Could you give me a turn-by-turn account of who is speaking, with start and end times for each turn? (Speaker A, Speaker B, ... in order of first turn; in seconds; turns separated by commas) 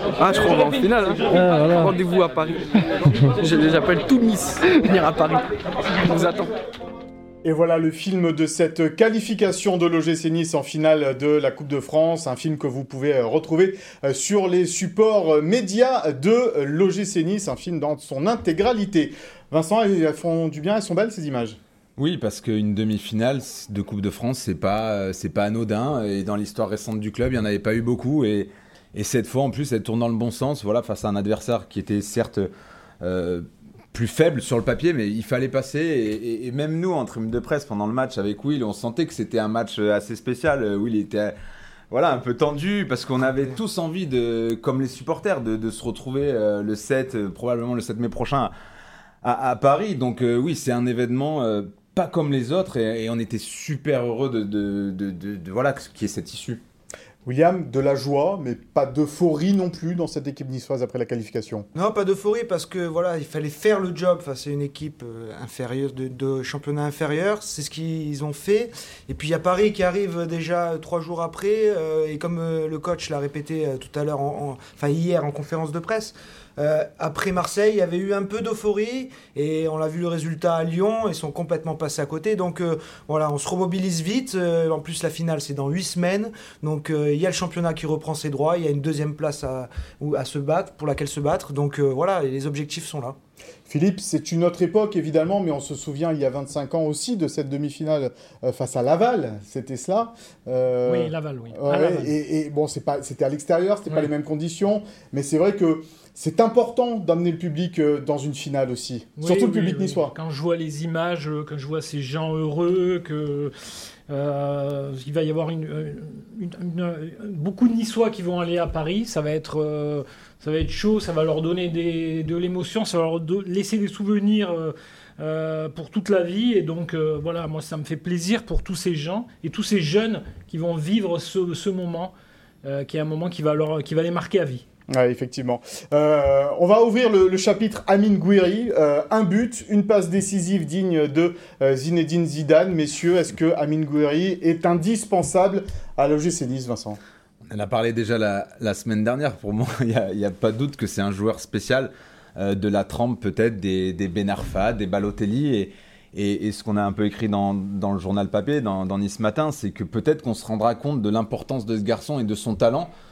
Speaker A: 0.2-6.5, Speaker B: 7.4-21.6, Speaker C: 22.0-32.5, Speaker C: 33.0-41.3, Speaker C: 41.9-48.5, Speaker C: 49.2-56.6, Speaker B: 57.2-61.7, Speaker D: 61.8-93.2, Speaker B: 93.7-110.1, Speaker E: 100.8-102.1, Speaker E: 109.2-113.5, Speaker E: 114.1-132.1, Speaker E: 132.6-134.6, Speaker B: 134.9-147.0, Speaker C: 147.5-162.9